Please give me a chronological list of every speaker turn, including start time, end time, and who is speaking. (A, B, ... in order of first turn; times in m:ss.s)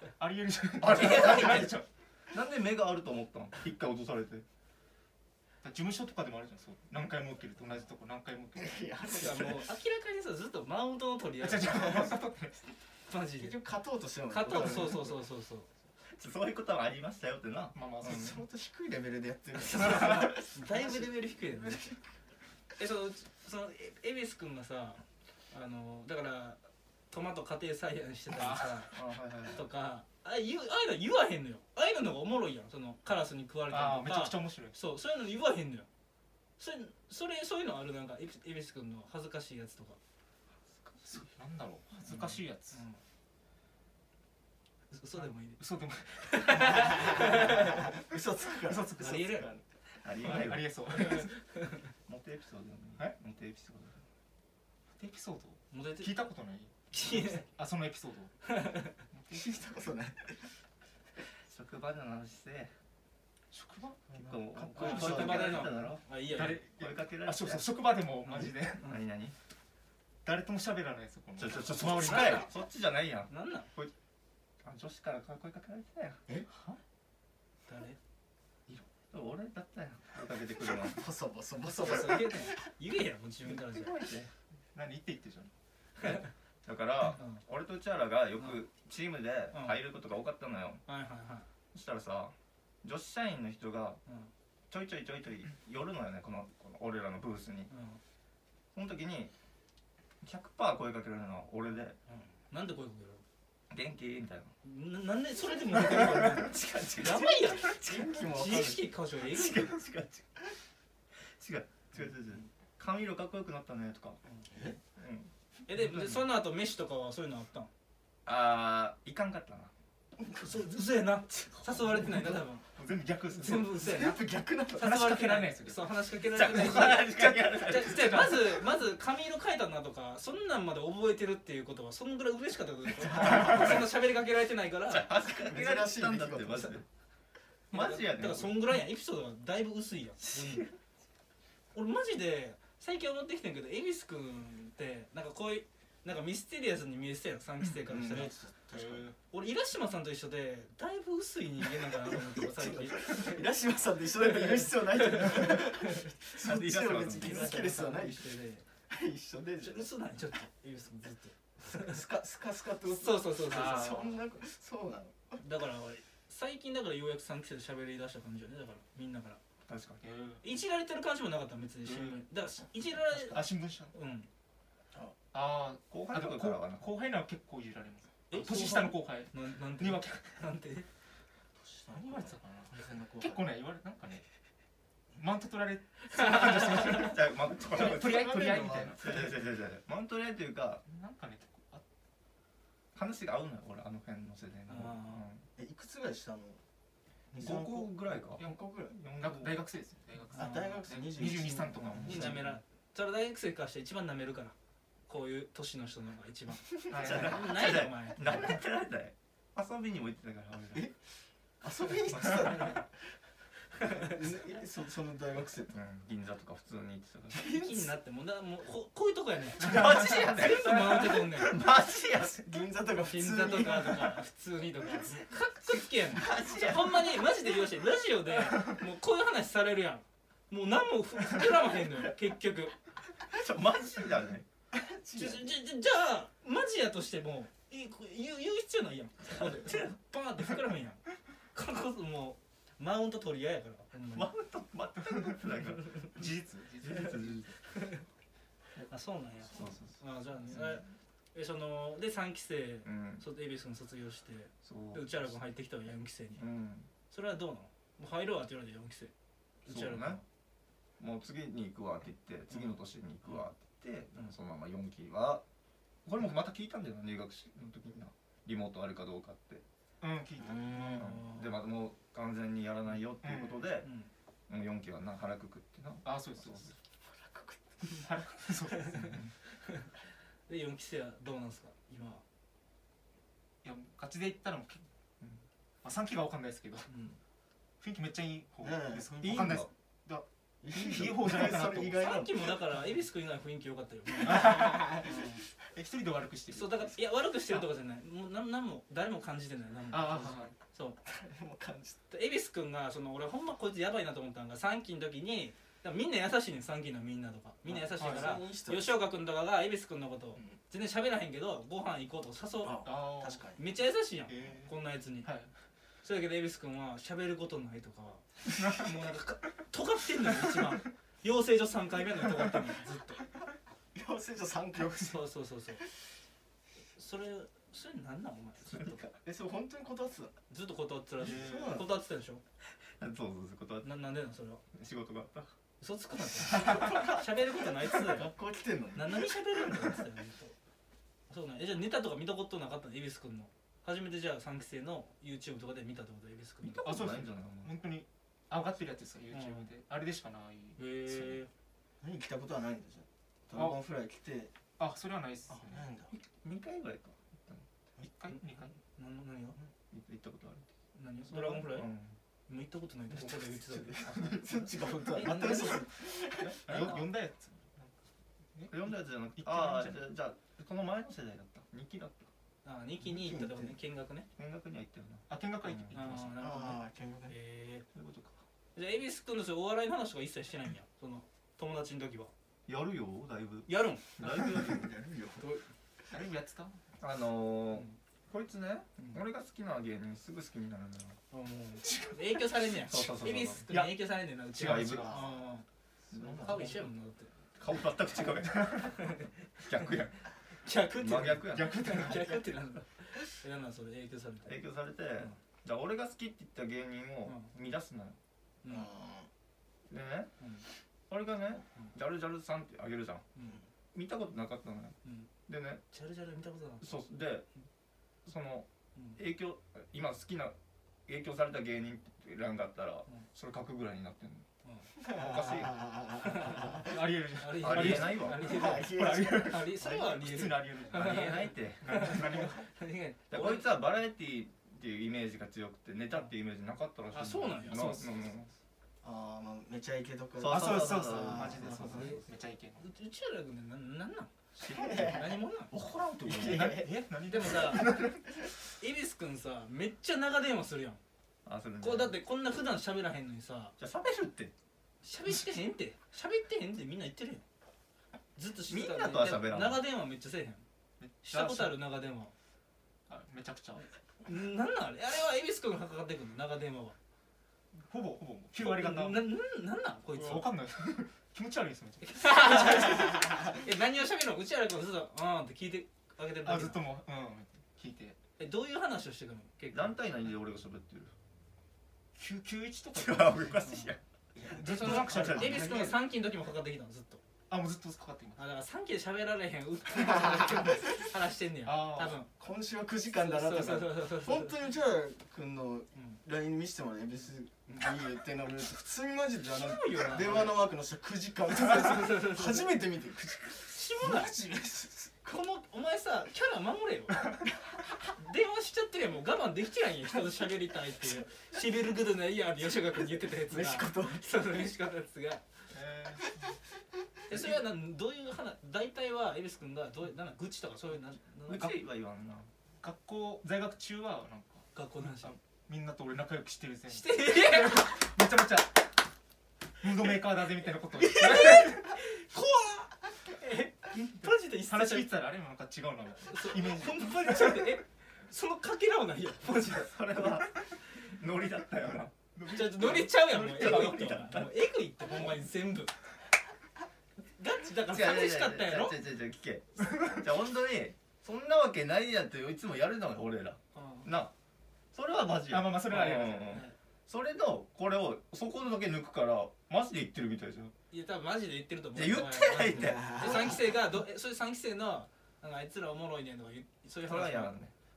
0:00.2-0:01.8 A
0:00.8-0:04.4 B
0:05.6-0:08.8 A
0:08.6-0:09.7 C
0:09.1-0:12.1 D
0:11.4-0:12.7 A
0:13.1-0:13.6 D
0:13.4-0:15.2 C
0:14.3-0:15.7 D
0:14.5-0:15.0 B
0:16.1-0:18.2 B
0:17.7-0:18.4 A
0:18.0-0:22.0 C
0:19.6-0:22.0 D
0:22.8-0:26.6 D
0:27.1-0:28.9 D
0:28.3-0:28.7 A
0:28.9-0:29.6 B
0:29.5-0:35.9 D
0:33.7-0:34.8 A
0:36.6-0:40.0 D
0:41.0-0:42.8 A
0:42.1-0:43.0 D
0:44.9-0:45.6 D
0:45.2-0:47.5 A
0:46.1-0:48.0 D
0:46.6-0:49.6 C
0:48.6-0:49.3 A
0:49.0-0:49.5 D
0:50.0-0:50.8 B
0:50.2-0:51.3 A
0:50.9-0:51.8 D
0:52.1-0:54.0 B
0:54.9-0:58.3 A
0:55.7-0:56.1 D
0:56.9-0:57.4 D
0:58.5-0:58.9 D
0:59.1-0:59.7 A
0:59.3-1:00.5 C
1:01.5-1:02.7 B
1:03.5-1:04.1 A
1:04.1-1:05.8 C
1:04.2-1:07.7 B
1:04.8-1:06.6 D
1:06.3-1:08.8 A
1:08.2-1:09.0 D
1:08.8-1:09.4 B
1:10.2-1:12.5 A
1:11.4-1:13.9 B
1:11.8-1:12.5 D
1:13.3-1:13.7 D
1:14.6-1:16.2 B
1:17.7-1:18.0 D
1:18.7-1:21.1 B
1:20.7-1:22.6 C
1:21.8-1:23.9 D
1:23.5-1:24.3 B
1:24.7-1:25.5 A
1:26.6-1:30.8 B
1:29.5-1:29.8 D
1:30.9-1:31.5 D
1:31.7-1:34.0 B
1:34.7-1:37.7 B
1:37.7-1:38.0 D
1:38.7-1:39.3 B
1:40.2-1:42.0 B
1:42.1-1:43.2 D
1:43.7-1:44.5 B
1:44.6-1:47.8 D
1:45.7-1:48.3 B
1:47.6-1:48.8 C
1:48.3-1:49.7 D
1:49.3-1:50.2 B
1:51.3-1:54.2 B
1:54.5-1:54.8 C
1:55.0-1:56.2 B
1:55.7-1:57.7 D
1:58.2-1:59.7 B
2:00.4-2:02.6 D
2:02.0-2:03.8 A
2:03.4-2:04.2 D
2:03.7-2:05.1 C
2:04.8-2:08.6 A
2:04.8-2:15.1 D
2:06.4-2:08.3 B
2:13.0-2:13.9 C
2:13.2-2:13.9 B
2:14.9-2:16.8 B
2:15.3-2:16.8 C
2:17.7-2:18.7 B
2:17.7-2:20.7 D
2:20.3-2:20.7 B
2:21.7-2:28.3 D
2:27.9-2:28.3 B
2:28.0-2:29.1 C
2:28.7-2:29.2 A
2:29.3-2:33.4 D
2:32.0-2:38.3 C
2:34.2-2:36.1 D
2:36.3-2:37.7 B
2:37.2-2:38.7 D
2:38.9-2:39.9 C
2:39.6-2:42.0 D
2:41.7-2:45.4 C
2:42.9-2:44.1 D
2:43.5-2:44.1 A
2:45.4-2:49.4 D
2:49.7-2:50.0 B
2:50.0-2:50.5 A
2:50.4-2:54.3 D
2:51.8-2:52.2 A
2:53.2-2:53.9 A
2:55.3-3:00.3 A
2:55.9-2:56.9 B
2:58.3-3:00.9 D
3:01.6-3:03.5 C
3:01.9-3:04.2 A
3:05.2-3:09.3 A
3:06.2-3:07.1 D
3:06.7-3:10.8 B
3:07.7-3:09.2 C
3:10.8-3:11.8 A
3:13.0-3:15.5 B
3:14.7-3:15.2 D
3:15.6-3:16.6 C
3:17.3-3:19.0 C
3:17.4-3:19.6 B
3:19.2-3:22.5 A
3:20.3-3:22.5 C
3:20.3-3:20.7 D
3:22.0-3:24.6 D
3:25.1-3:28.5 D
3:26.9-3:27.5 A
3:26.9-3:30.9 B
3:31.6-3:32.9 C
3:32.1-3:32.6 B
3:33.8-3:35.7 C
3:35.7-3:37.4 B
3:37.3-3:37.9 C
3:37.4-3:41.6 D
3:39.6-3:42.4 B
3:42.2-3:44.2 C
3:43.0-3:52.8 D
3:46.1-3:47.2 B
3:53.3-3:54.4 B
3:54.7-3:55.6 C
3:55.1-4:04.3 D
3:59.4-4:00.0 B
4:04.1-4:06.2 B
4:06.1-4:07.6 A
4:06.8-4:07.5 B
4:07.7-4:08.0 D
4:08.9-4:16.4 D
4:09.5-4:10.0 B
4:10.5-4:10.8 B
4:12.8-4:13.2 B
4:14.7-4:15.2 B
4:16.4-4:16.9 B
4:17.1-4:19.1 D
4:19.6-4:20.2 D
4:19.7-4:20.2 B
4:21.0-4:25.4 B
4:26.1-4:29.6 B
4:30.0-4:31.2 A
4:30.7-4:33.9 B
4:30.9-4:31.4 D
4:33.2-4:33.6 A
4:33.8-4:34.1 D
4:34.5-4:36.1 B
4:36.0-4:36.7 A
4:37.0-4:37.9 C
4:37.8-4:39.3 A
4:38.7-4:39.9 D
4:40.5-4:42.2 D
4:43.6-4:44.9 A
4:45.8-4:46.9 A
4:46.9-4:47.2 D
4:47.8-4:52.1 A
4:48.6-4:49.7 C
4:49.2-4:49.7 B
4:50.6-4:52.6 C
4:52.0-4:55.4 D
4:54.2-4:57.7 A
4:54.3-4:55.1 C
4:56.5-5:01.0 D
4:59.9-5:00.5 A
5:01.0-5:02.0 C
5:02.1-5:12.8 D
5:07.7-5:09.0 C
5:08.0-5:08.4 A
5:12.6-5:13.6 C
5:12.8-5:13.4 A
5:13.6-5:15.3 D
5:14.3-5:15.5 A
5:16.0-5:23.3 D
5:18.5-5:19.0 A
5:20.3-5:20.7 A
5:24.0-5:25.2 C
5:24.8-5:25.2 A
5:25.0-5:25.8 D
5:27.0-5:29.1 D
5:28.7-5:29.2 B
5:29.2-5:30.3 C
5:30.5-5:32.4 D
5:31.2-5:31.9 C
5:31.2-5:31.8 A
5:33.0-5:33.9 B
5:33.8-5:34.6 D
5:34.7-5:35.5 B
5:35.8-5:38.3 D
5:36.8-5:37.1 C
5:37.9-5:39.4 C
5:39.0-5:40.5 D
5:41.3-5:46.9 D
5:46.6-5:47.7 B
5:46.8-5:51.4 A
5:49.3-5:49.7 D
5:50.8-5:51.5 D
5:52.0-5:54.5 C
5:53.5-5:53.8 A
5:54.8-5:55.9 A
5:55.5-5:56.1 C
5:56.1-5:57.6 B
5:58.0-5:58.7 A
5:58.3-5:59.6 D
5:59.9-6:00.7 B
6:01.0-6:01.9 D
6:01.3-6:02.2 B
6:02.5-6:04.1 D
6:03.1-6:06.9 C
6:05.1-6:05.9 D
6:06.4-6:06.9 B
6:06.6-6:07.9 A
6:06.7-6:07.0 D
6:08.6-6:10.0 A
6:08.7-6:12.3 B
6:12.6-6:14.3 D
6:13.0-6:13.8 C
6:14.4-6:16.0 B
6:15.3-6:16.4 A
6:15.9-6:17.8 D
6:16.4-6:17.4 C
6:17.9-6:18.4 B
6:18.8-6:22.3 D
6:22.7-6:24.9 B
6:23.7-6:24.2 D
6:24.2-6:25.6 C
6:25.4-6:25.6 D
6:26.1-6:26.8 A
6:27.0-6:31.2 B
6:31.3-6:35.6 D
6:31.9-6:32.2 A
6:32.8-6:33.8 B
6:33.7-6:35.4 A
6:34.6-6:35.4 B
6:36.1-6:36.9 B
6:36.1-6:36.9 A
6:36.4-6:37.3 D
6:37.6-6:40.3 B
6:38.8-6:39.3 D
6:40.6-6:44.5 D
6:41.0-6:42.2 B
6:41.4-6:42.4 A
6:44.4-6:48.2 B
6:47.2-6:47.5 D
6:48.6-6:48.9 D
6:48.7-6:49.3 C
6:49.9-6:50.3 B
6:50.4-6:50.7 D
6:51.1-6:53.2 B
6:53.4-6:53.7 D
6:53.9-6:55.8 B
6:55.0-6:55.3 D
6:55.9-6:57.1 D
6:56.8-6:57.5 B
6:58.2-7:00.6 B
7:01.1-7:04.5 B
7:04.6-7:04.9 D
7:05.0-7:05.9 B
7:05.0-7:07.0 C
7:06.2-7:13.7 D
7:06.8-7:11.3 A
7:07.6-7:08.5 B
7:08.4-7:09.6 C
7:10.9-7:12.6 B
7:11.8-7:12.6 A
7:13.3-7:18.4 B
7:17.1-7:18.1 D
7:17.6-7:18.5 A
7:19.0-7:22.2 C
7:20.4-7:21.7 B
7:20.4-7:22.8 A
7:21.8-7:22.2 D
7:22.8-7:24.3 D
7:24.6-7:26.8 B
7:24.7-7:25.4 C
7:24.8-7:25.7 D
7:26.2-7:28.3 A
7:26.3-7:26.9 C
7:27.3-7:28.0 D
7:28.8-7:31.0 D
7:31.4-7:32.2 B
7:31.8-7:33.7 D
7:33.8-7:34.5 B
7:35.0-7:37.4 D
7:38.4-7:40.6 D
7:38.7-7:39.8 B
7:41.0-7:41.8 A
7:41.2-7:42.3 D
7:43.1-7:43.8 A
7:44.2-7:47.0 D
7:47.7-7:49.3 A
7:48.6-7:50.5 D
7:50.1-7:52.6 A
7:52.0-7:56.8 D
7:56.4-7:58.2 A
7:58.4-8:00.0 D
7:59.7-8:01.1 B
8:02.2-8:03.7 A
8:02.9-8:04.0 B
8:03.6-8:03.9 D
8:04.4-8:06.0 A
8:04.5-8:07.2 D
8:04.5-8:05.9 B
8:07.5-8:08.4 A
8:08.4-8:12.3 D
8:10.1-8:10.8 C
8:11.6-8:12.2 A
8:12.3-8:25.3 C
8:13.1-8:14.6 D
8:16.0-8:16.2 D
8:19.6-8:20.7 D
8:21.7-8:22.7 D
8:23.6-8:24.4 D
8:25.2-8:27.4 D
8:28.2-8:35.4 D
8:33.5-8:34.3 C
8:35.7-8:36.5 A
8:37.3-8:41.8 D
8:41.5-8:42.5 B
8:42.8-8:44.6 A
8:44.7-8:45.4 D
8:45.2-8:49.0 A
8:46.9-8:48.0 D
8:49.8-8:51.9 A
8:51.0-8:55.1 D
8:54.2-8:57.8 A
8:56.3-9:00.0 D
8:59.8-9:04.7 B
9:02.4-9:04.0 A
9:02.5-9:05.9 D
9:07.4-9:09.0 D
9:07.9-9:14.3 B
9:13.7-9:14.1 D
9:14.9-9:20.7 B
9:15.5-9:16.6 A
9:20.9-9:27.6 D
9:22.0-9:23.6 B
9:22.8-9:23.6 C
9:27.0-9:27.7 B